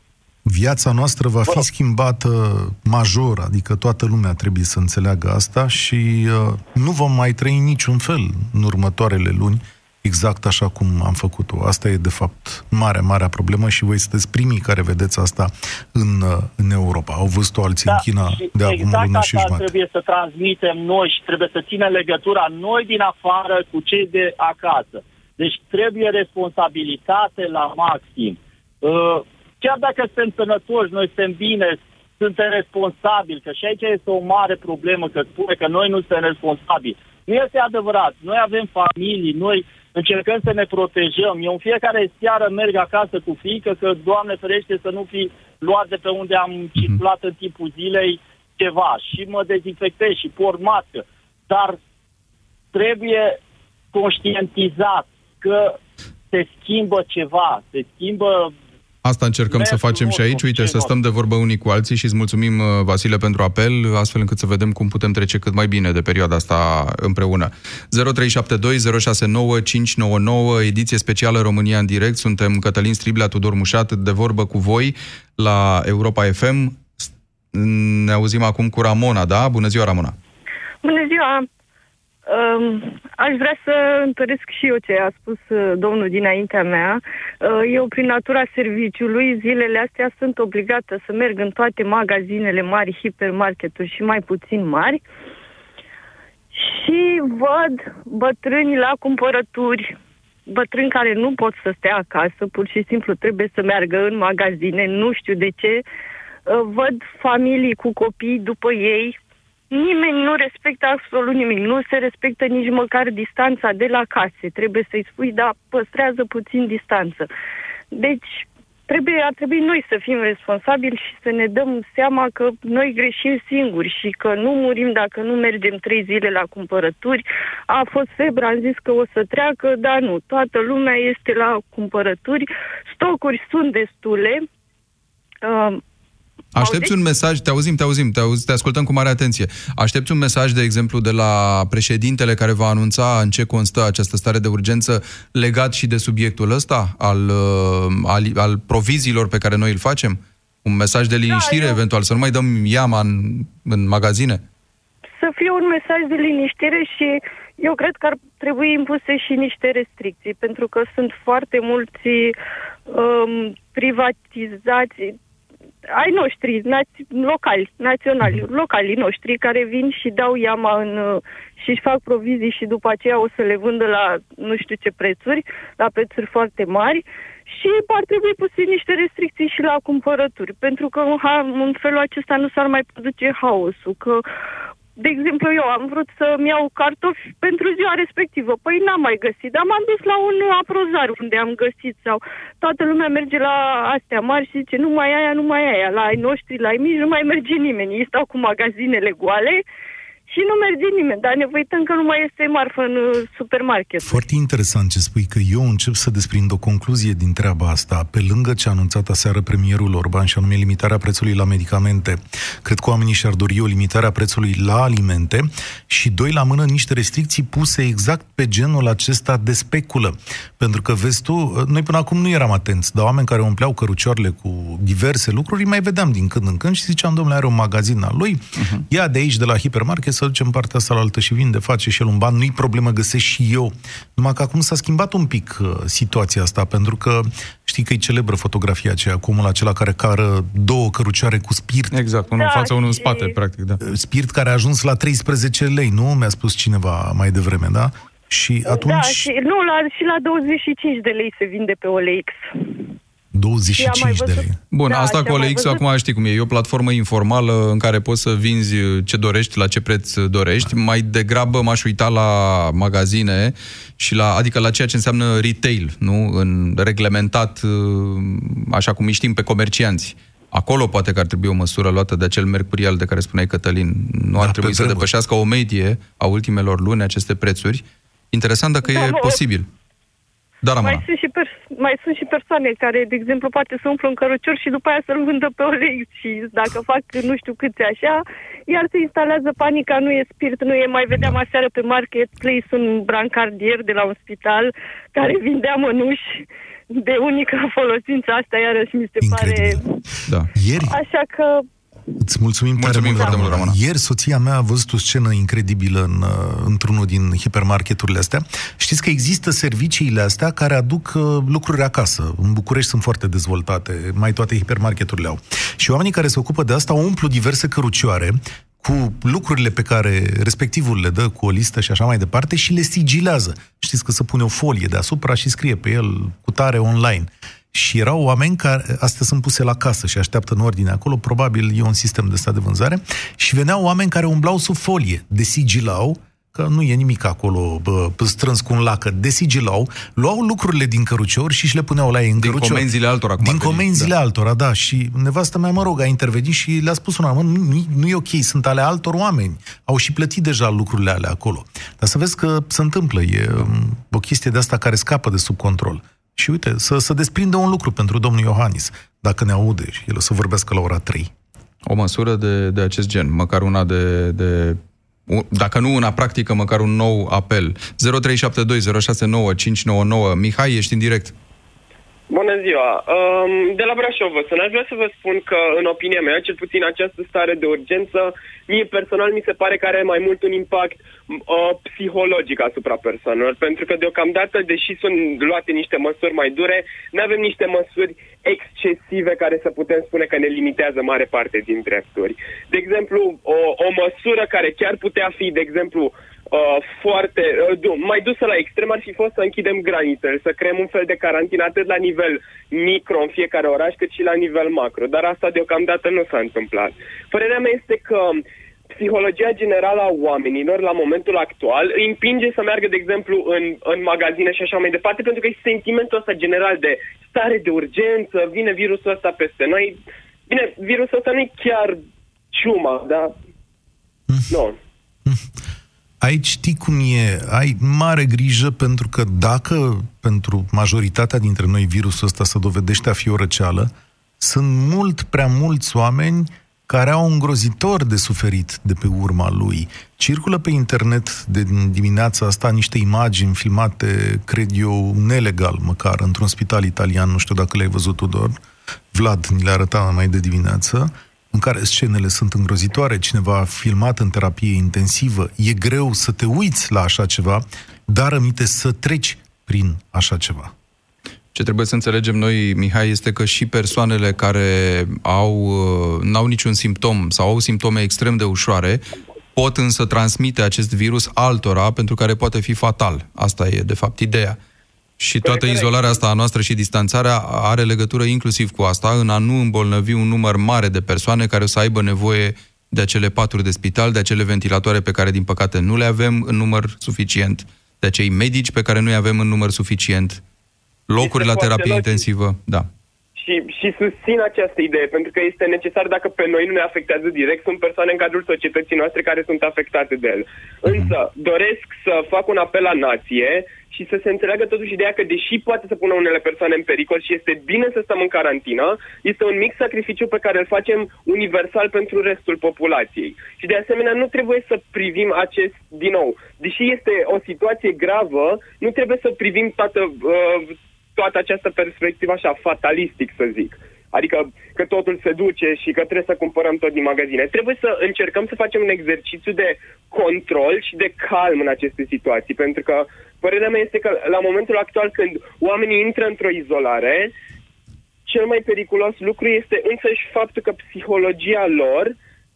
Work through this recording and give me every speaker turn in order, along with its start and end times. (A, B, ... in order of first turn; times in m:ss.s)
0:00.5-0:19.8 A
0:17.9-0:51.8 B
0:52.7-0:53.4 B
0:53.9-0:55.8 B
0:56.3-0:58.5 B
0:59.0-1:20.1 C
0:59.5-1:01.0 B
1:20.8-1:21.5 D
1:22.3-1:35.0 D
1:36.5-1:40.0 D
1:40.5-1:45.8 D
1:46.5-1:49.2 D
1:49.7-1:57.3 D
1:57.9-2:14.4 D
2:15.4-2:15.8 D
2:16.6-2:34.4 C
2:16.6-2:16.9 D
2:31.3-2:31.8 D
2:35.2-2:42.4 D
2:42.9-2:45.2 D
2:45.9-3:04.2 D
3:05.0-3:19.6 D
3:20.3-3:24.2 D
3:24.0-4:02.0 A
3:48.6-3:48.8 C
4:01.9-4:03.8 C
4:02.4-4:03.3 D
4:03.8-4:09.3 A
4:08.7-4:12.8 D
4:13.3-4:14.6 A
4:13.8-4:15.8 D
4:14.7-4:39.7 C
4:34.4-4:35.1 A
4:38.9-4:39.4 D
4:40.6-4:41.0 C
4:40.8-4:59.8 D
4:59.2-4:59.8 A
5:00.5-5:01.0 A
5:00.8-5:01.6 D
5:02.2-5:42.9 A
5:02.8-5:03.8 C
5:42.4-5:44.1 C
5:43.4-6:01.3 A
6:01.9-6:11.3 C
6:12.3-7:02.0 E
7:02.5-7:03.3 E
7:04.5-7:04.8 E
7:06.2-7:28.6 A
7:29.1-7:40.7 A
7:41.6-7:49.0 C
7:49.6-7:54.6 C
7:55.2-8:10.4 C
7:55.4-7:56.2 E
8:11.1-8:12.9 C
8:11.2-8:12.3 E
8:13.4-8:57.3 E
8:20.8-8:21.1 C
8:58.3-9:02.1 E